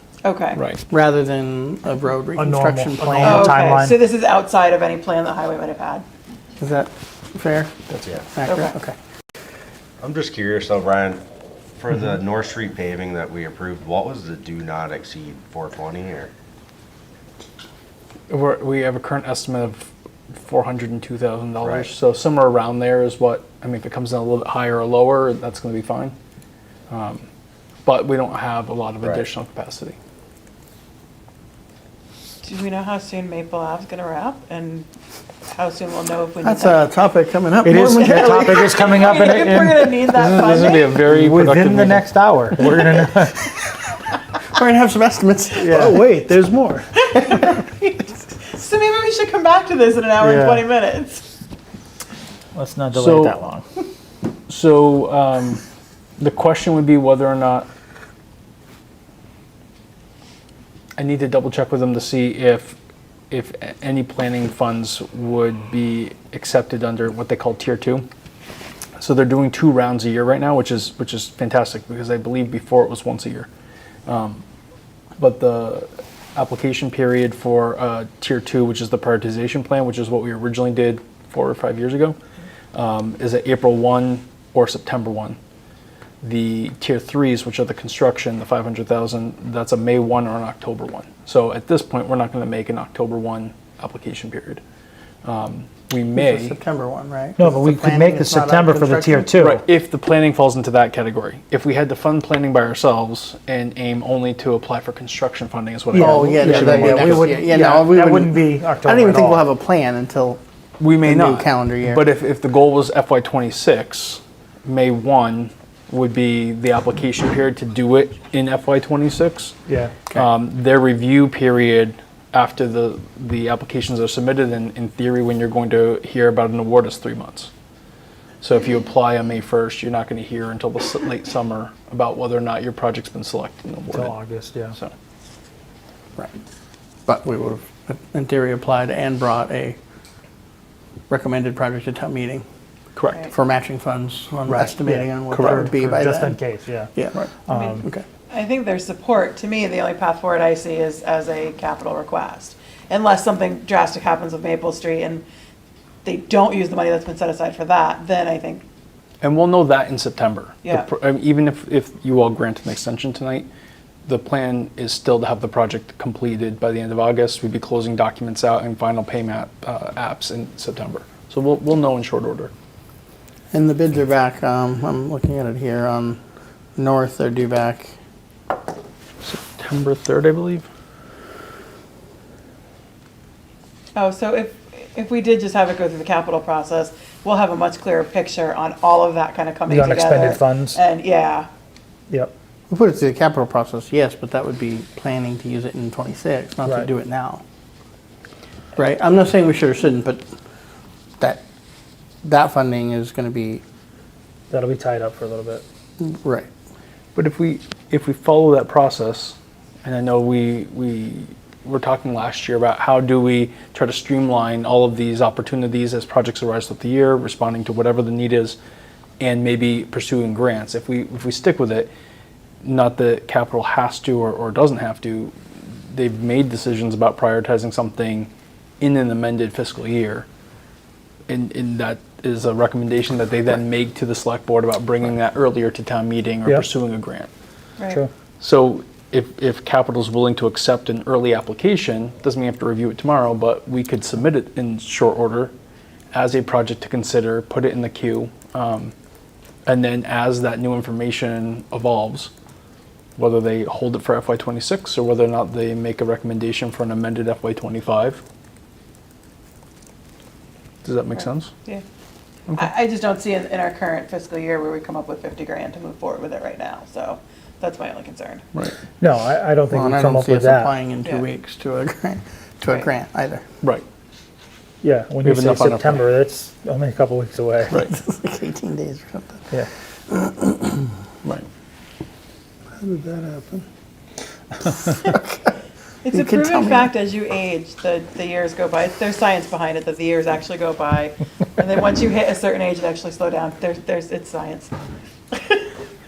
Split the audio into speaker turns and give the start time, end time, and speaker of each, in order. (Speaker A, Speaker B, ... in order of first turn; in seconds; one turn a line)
Speaker A: 0.2-0.6
Speaker B: 0.5-0.8
Speaker C: 0.9-3.6
Speaker D: 2.4-4.0
Speaker A: 3.2-6.0
Speaker C: 6.6-7.7
Speaker E: 8.0-8.3
Speaker C: 8.3-8.9
Speaker A: 8.4-8.7
Speaker E: 10.0-11.2
Speaker E: 11.8-16.3
Speaker B: 18.3-26.1
Speaker E: 21.6-21.9
Speaker B: 26.9-27.2
Speaker B: 27.8-30.0
Speaker E: 29.0-29.3
Speaker A: 32.4-34.9
Speaker A: 35.5-36.9
Speaker C: 36.4-39.0
Speaker D: 37.6-43.5
Speaker A: 38.0-41.0
Speaker B: 40.2-42.6
Speaker C: 44.4-46.1
Speaker D: 45.6-46.9
Speaker A: 46.9-51.3
Speaker D: 50.2-50.6
Speaker D: 52.5-53.6
Speaker B: 52.9-53.4
Speaker B: 54.5-55.6
Speaker B: 56.2-57.7
Speaker B: 61.0-62.8
Speaker B: 63.3-68.0
Speaker B: 69.0-73.5
Speaker B: 74.1-74.4
Speaker B: 75.2-82.2
Speaker B: 82.7-85.4
Speaker B: 86.2-94.6
Speaker B: 95.2-96.5
Speaker C: 96.2-99.3
Speaker D: 97.4-99.6
Speaker B: 99.4-107.3
Speaker C: 105.9-110.4
Speaker D: 105.9-109.4
Speaker B: 110.8-119.6
Speaker C: 111.0-112.0
Speaker D: 119.7-120.0
Speaker B: 120.1-127.5
Speaker B: 128.4-134.2
Speaker D: 133.9-134.8
Speaker C: 137.1-139.8
Speaker C: 141.1-142.4
Speaker B: 142.9-143.2
Speaker C: 143.3-146.4
Speaker B: 144.5-144.7
Speaker D: 144.9-146.9
Speaker B: 145.3-145.6
Speaker D: 147.5-147.8
Speaker A: 147.5-155.2
Speaker A: 156.0-158.6
Speaker B: 159.2-163.5
Speaker A: 160.6-160.9
Speaker B: 164.1-172.5
Speaker C: 173.5-176.2
Speaker C: 176.8-177.9
Speaker B: 179.2-180.6
Speaker A: 183.9-191.5
Speaker D: 189.7-190.8
Speaker C: 192.7-197.4
Speaker C: 198.8-200.2
Speaker C: 202.2-203.6
Speaker D: 204.5-205.6
Speaker C: 206.0-206.5
Speaker B: 207.1-218.6
Speaker B: 219.2-221.9
Speaker B: 222.6-230.3
Speaker B: 231.3-237.3
Speaker B: 238.4-245.5
Speaker B: 246.1-248.9
Speaker B: 249.7-252.3
Speaker B: 253.2-258.2
Speaker B: 260.8-261.5
Speaker A: 261.1-261.8
Speaker A: 262.6-268.4
Speaker D: 269.0-270.7
Speaker C: 269.7-273.4
Speaker D: 274.8-277.7
Speaker B: 275.2-276.0
Speaker C: 277.7-279.5
Speaker C: 280.1-280.9
Speaker C: 282.8-283.6
Speaker C: 284.6-285.5
Speaker A: 286.0-294.7
Speaker C: 286.1-286.9
Speaker A: 295.3-295.7